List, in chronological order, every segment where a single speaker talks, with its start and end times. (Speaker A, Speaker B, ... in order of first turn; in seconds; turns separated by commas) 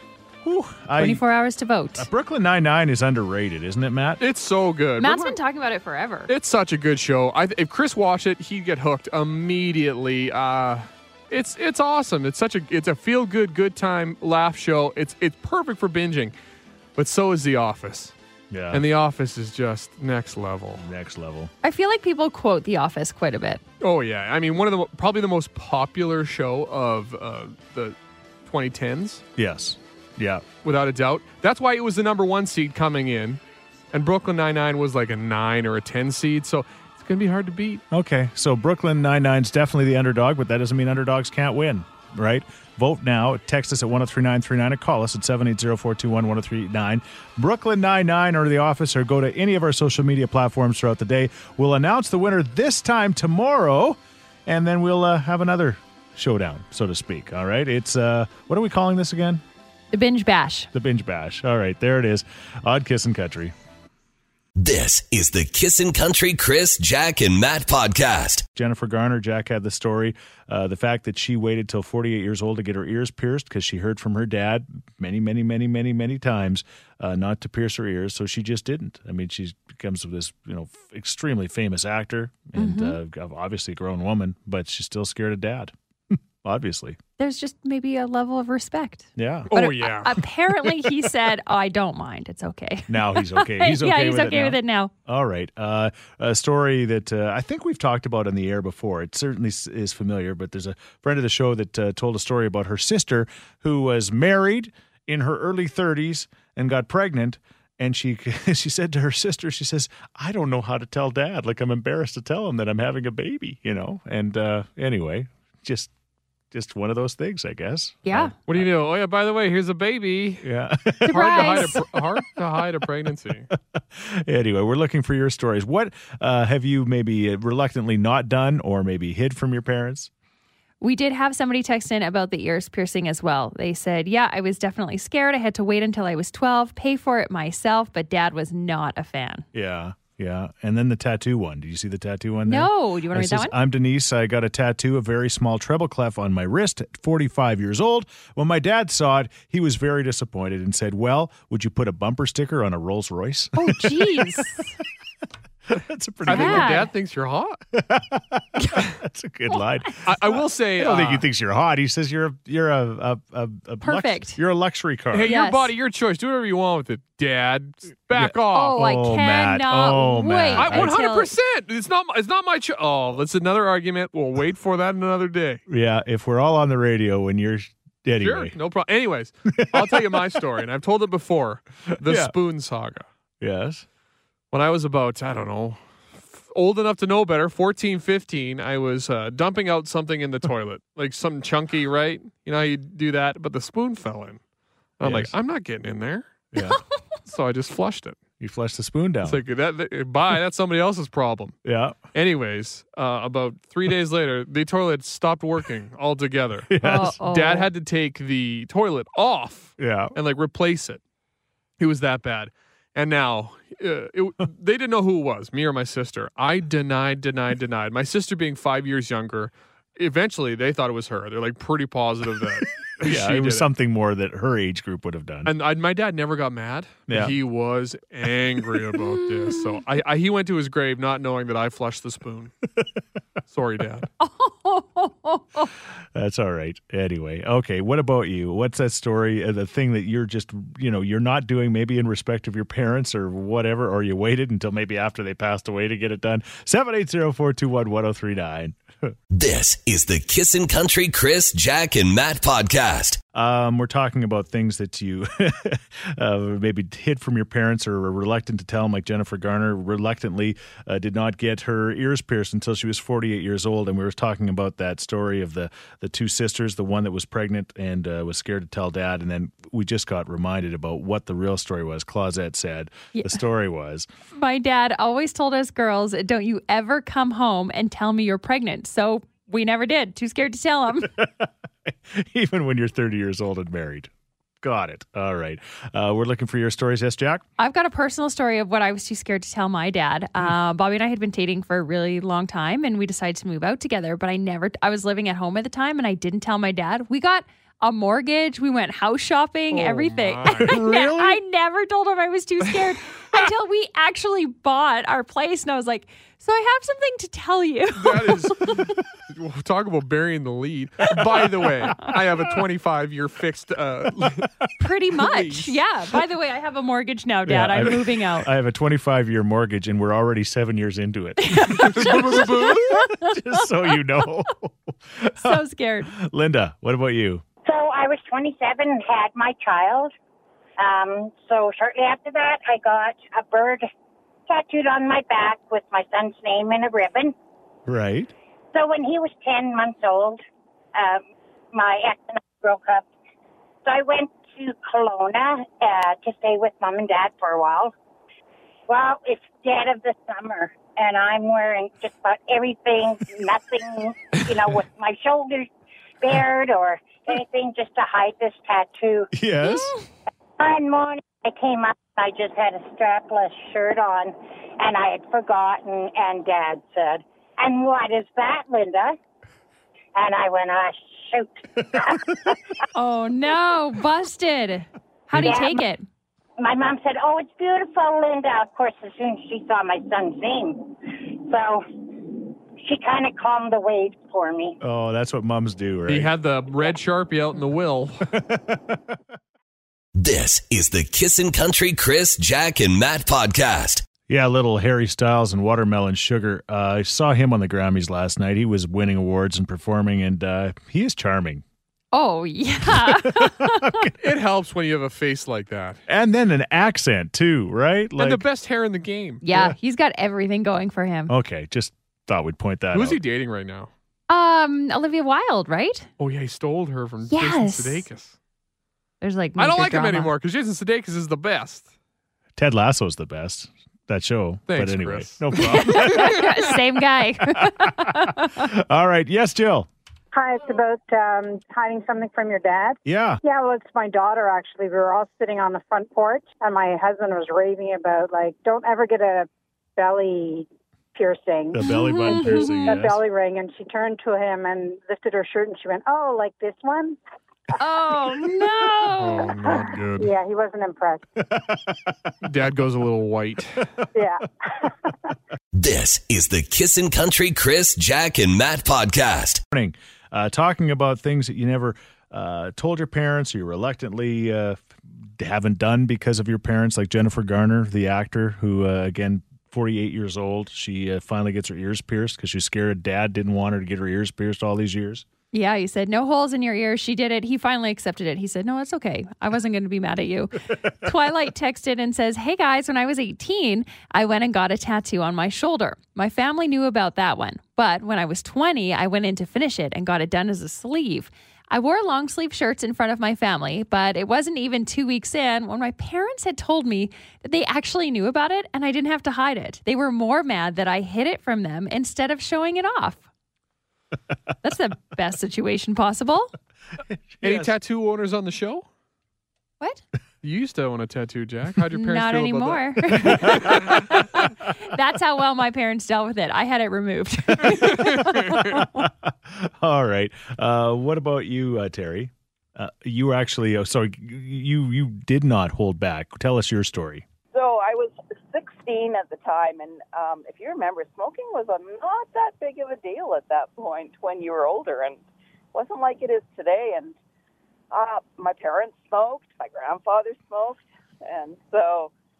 Speaker A: 0.4-1.2, Speaker B: 1.0-2.1, Speaker A: 1.9-4.2, Speaker C: 4.2-5.4, Speaker B: 5.0-6.3, Speaker C: 6.3-16.3, Speaker C: 16.9-18.1, Speaker A: 18.5-18.9, Speaker C: 18.7-20.8, Speaker A: 20.8-21.5, Speaker B: 21.6-23.6, Speaker C: 23.8-29.2, Speaker A: 29.4-30.5, Speaker C: 30.6-33.4, Speaker C: 33.9-37.8, Speaker A: 37.9-59.4, Speaker B: 59.9-60.7, Speaker A: 60.7-63.5, Speaker D: 64.5-68.4, Speaker A: 68.5-87.0, Speaker B: 82.5-83.0, Speaker B: 87.2-94.9, Speaker A: 89.2-89.5, Speaker C: 89.5-90.1, Speaker A: 92.9-115.9, Speaker A: 116.5-118.7, Speaker B: 118.0-118.3, Speaker C: 118.5-120.5, Speaker A: 120.4-121.8, Speaker B: 121.0-121.8, Speaker C: 121.1-123.5, Speaker A: 123.7-130.1, Speaker B: 130.8-139.4, Speaker A: 139.5-154.6, Speaker B: 142.5-143.5, Speaker B: 153.5-154.7, Speaker A: 155.7-156.8, Speaker C: 156.2-157.6, Speaker B: 156.3-156.9, Speaker A: 157.7-165.3, Speaker C: 160.0-161.2, Speaker B: 163.8-164.4, Speaker C: 165.1-168.9, Speaker B: 165.2-165.7, Speaker A: 168.1-171.0, Speaker B: 168.5-171.3, Speaker C: 170.6-175.6, Speaker A: 175.7-178.5, Speaker C: 178.2-183.0, Speaker A: 179.5-180.2, Speaker A: 181.9-182.3, Speaker A: 183.4-183.8, Speaker C: 184.5-194.4, Speaker C: 195.0-196.5, Speaker A: 195.0-195.3, Speaker A: 196.5-196.8, Speaker C: 197.2-198.2, Speaker A: 198.4-199.4, Speaker C: 199.2-201.6, Speaker A: 201.6-202.0, Speaker C: 202.1-211.0, Speaker A: 206.7-207.2, Speaker B: 206.8-207.7, Speaker A: 209.8-210.1, Speaker C: 211.8-223.7, Speaker A: 223.0-225.5, Speaker C: 225.4-232.5, Speaker A: 227.1-227.3, Speaker C: 233.5-234.1, Speaker B: 234.2-235.7, Speaker A: 236.1-249.1, Speaker D: 249.3-253.2, Speaker A: 253.3-274.1, Speaker B: 273.1-273.4, Speaker B: 274.3-281.1, Speaker A: 281.0-284.1, Speaker A: 284.6-287.4, Speaker B: 287.6-308.8, Speaker C: 299.7-300.8, Speaker A: 300.7-301.4, Speaker C: 307.9-314.5, Speaker B: 314.8-318.5, Speaker C: 315.2-315.8, Speaker A: 317.5-327.4, Speaker B: 321.4-323.9, Speaker C: 321.8-323.1, Speaker B: 325.4-326.1, Speaker E: 327.6-330.1, Speaker E: 330.8-333.9, Speaker E: 334.5-337.3, Speaker A: 337.9-338.3, Speaker E: 338.7-340.4, Speaker E: 340.9-343.1, Speaker E: 343.8-347.9, Speaker E: 348.9-355.7, Speaker E: 356.2-359.3, Speaker A: 359.3-359.9, Speaker B: 359.6-360.0, Speaker E: 360.6-369.2, Speaker E: 370.1-372.6, Speaker B: 372.9-376.1, Speaker A: 375.3-375.6, Speaker E: 375.3-375.8, Speaker E: 376.6-384.8, Speaker A: 384.8-386.3, Speaker C: 386.1-388.3, Speaker A: 388.4-389.0, Speaker D: 390.1-394.1, Speaker A: 394.3-401.6, Speaker B: 402.1-404.1, Speaker A: 402.8-404.1, Speaker C: 404.2-406.0, Speaker A: 406.1-408.4, Speaker C: 408.2-409.4, Speaker B: 409.4-411.3, Speaker A: 409.5-409.8, Speaker A: 411.3-413.2, Speaker C: 412.9-413.9, Speaker B: 414.3-416.1, Speaker C: 416.2-418.4, Speaker B: 417.3-418.1, Speaker B: 419.2-420.3, Speaker C: 419.6-421.9, Speaker A: 422.6-426.7, Speaker C: 424.7-426.4, Speaker B: 425.6-428.7, Speaker A: 427.4-429.9, Speaker F: 430.3-447.2, Speaker A: 433.0-433.4, Speaker A: 441.7-443.2, Speaker B: 441.9-442.9, Speaker B: 447.8-449.5, Speaker C: 449.2-450.3, Speaker F: 449.6-451.2, Speaker A: 451.5-452.1, Speaker C: 452.4-453.9, Speaker F: 454.1-454.9, Speaker D: 455.7-459.6, Speaker A: 459.7-464.8, Speaker A: 465.4-475.2, Speaker B: 475.5-503.2, Speaker B: 504.6-506.5, Speaker A: 507.1-507.7, Speaker C: 507.4-508.9, Speaker C: 510.4-514.0, Speaker B: 511.9-519.0, Speaker A: 513.5-513.7, Speaker A: 517.5-527.2, Speaker C: 517.8-518.7, Speaker G: 527.5-535.2, Speaker G: 535.7-537.1, Speaker G: 537.9-542.1